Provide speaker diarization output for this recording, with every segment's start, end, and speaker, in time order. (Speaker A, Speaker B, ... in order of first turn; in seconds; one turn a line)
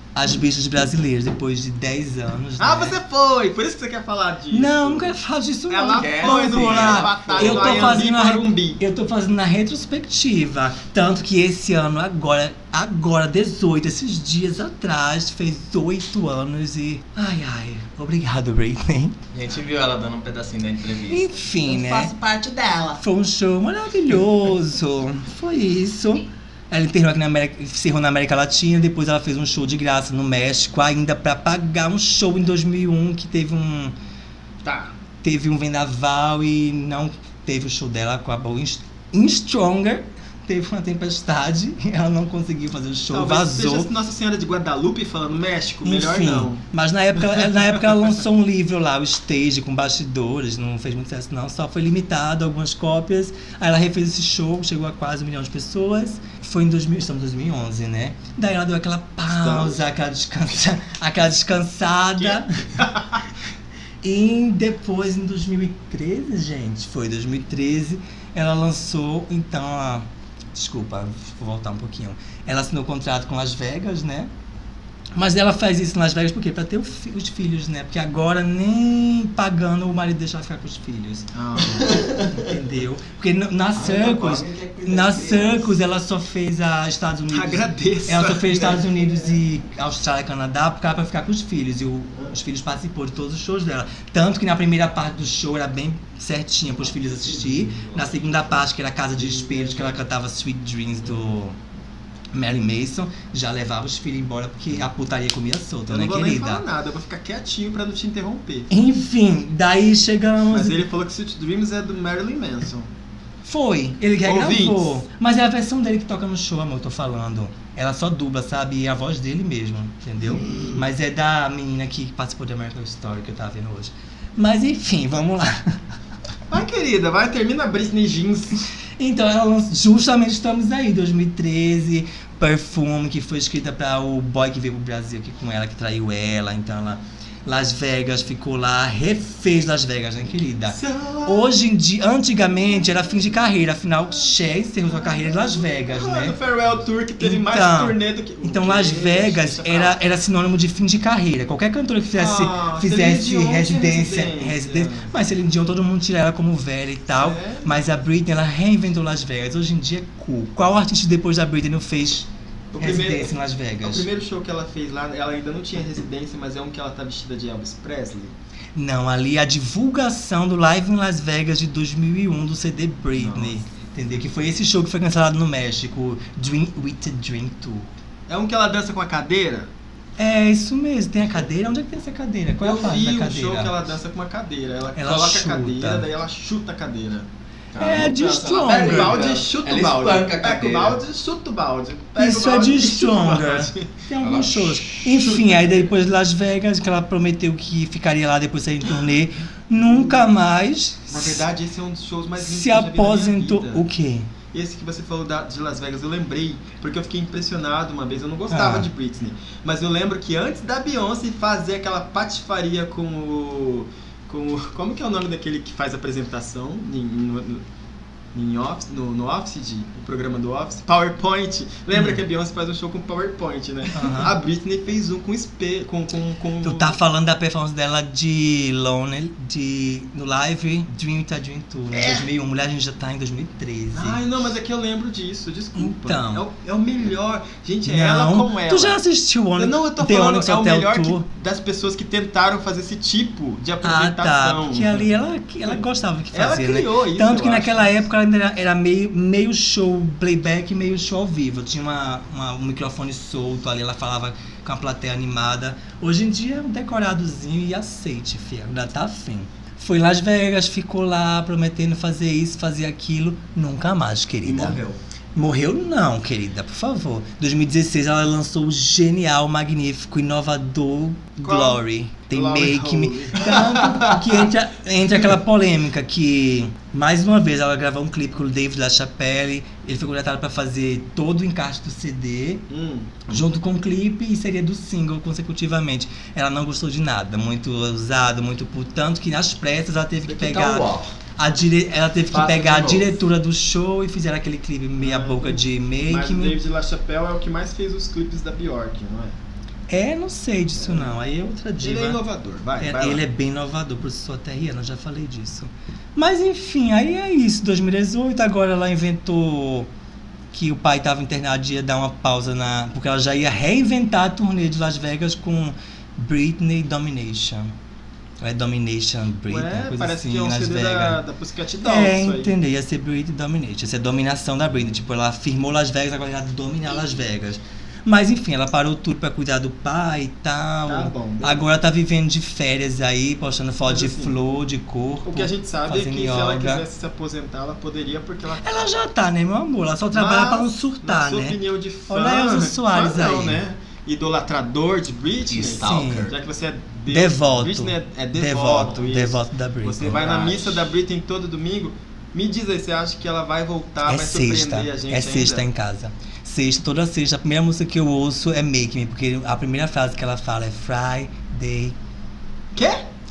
Speaker A: 0.1-3.0
Speaker B: 2.6-5.2
Speaker A: 4.5-19.1
Speaker B: 5.7-8.8
Speaker C: 5.9-8.0
Speaker C: 19.3-23.0
Speaker A: 21.1-22.2
Speaker A: 23.0-33.9
Speaker B: 34.6-34.9
Speaker A: 35.2-43.9
Speaker B: 43.1-46.6
Speaker A: 45.8-62.9
Speaker B: 59.3-59.8
Speaker B: 62.2-63.2
Speaker A: 64.0-74.3
Speaker A: 75.2-81.3
Speaker B: 81.3-82.0
Speaker C: 81.7-82.5
Speaker A: 82.3-101.6
Speaker C: 83.7-85.8
Speaker B: 87.3-88.8
Speaker C: 96.9-98.6
Speaker C: 99.2-99.8
Speaker A: 102.3-106.6
Speaker B: 105.9-108.7
Speaker A: 108.7-110.8
Speaker B: 110.5-112.9
Speaker A: 113.5-125.8
Speaker B: 114.2-115.0
Speaker B: 120.3-120.8
Speaker B: 126.5-128.6
Speaker A: 129.0-146.4
Speaker B: 140.7-141.6
Speaker B: 142.6-143.3
Speaker B: 144.9-150.0
Speaker A: 147.2-162.3
Speaker B: 152.2-155.1
Speaker B: 157.1-157.9
Speaker B: 162.7-168.3
Speaker A: 162.8-164.1
Speaker A: 168.8-177.9
Speaker B: 173.2-173.7
Speaker B: 178.3-179.7
Speaker A: 180.2-183.8
Speaker B: 182.6-187.3
Speaker A: 185.0-186.1
Speaker C: 187.7-191.0
Speaker A: 187.8-189.2
Speaker B: 187.8-194.0
Speaker A: 192.2-201.4
Speaker C: 194.2-194.8
Speaker B: 194.9-195.9
Speaker B: 199.8-200.2
Speaker B: 201.1-203.9
Speaker A: 202.4-204.3
Speaker B: 204.5-217.6
Speaker A: 208.5-208.9
Speaker B: 218.3-227.0
Speaker A: 221.9-222.2
Speaker A: 223.9-224.4
Speaker A: 226.6-234.2
Speaker B: 231.9-232.3
Speaker B: 233.9-239.0
Speaker A: 235.8-236.5
Speaker A: 237.8-241.3
Speaker B: 239.6-245.1
Speaker A: 243.8-264.8
Speaker B: 245.7-248.0
Speaker C: 264.4-265.0
Speaker A: 265.4-282.6
Speaker B: 271.4-274.3
Speaker B: 282.7-283.1
Speaker A: 283.3-296.6
Speaker C: 290.2-291.1
Speaker C: 292.3-293.2
Speaker B: 295.0-299.4
Speaker A: 299.9-302.2
Speaker B: 300.8-301.2
Speaker B: 301.8-303.2
Speaker A: 302.8-309.9
Speaker A: 310.5-317.7
Speaker A: 318.4-321.2
Speaker B: 319.5-322.6
Speaker A: 321.8-336.9
Speaker B: 330.9-331.7
Speaker B: 333.9-334.4
Speaker B: 335.2-338.9
Speaker A: 338.6-343.6
Speaker B: 340.1-355.7
Speaker C: 345.4-346.4
Speaker A: 345.8-346.3
Speaker A: 347.1-350.2
Speaker C: 350.1-350.9
Speaker A: 354.1-361.9
Speaker B: 362.8-363.0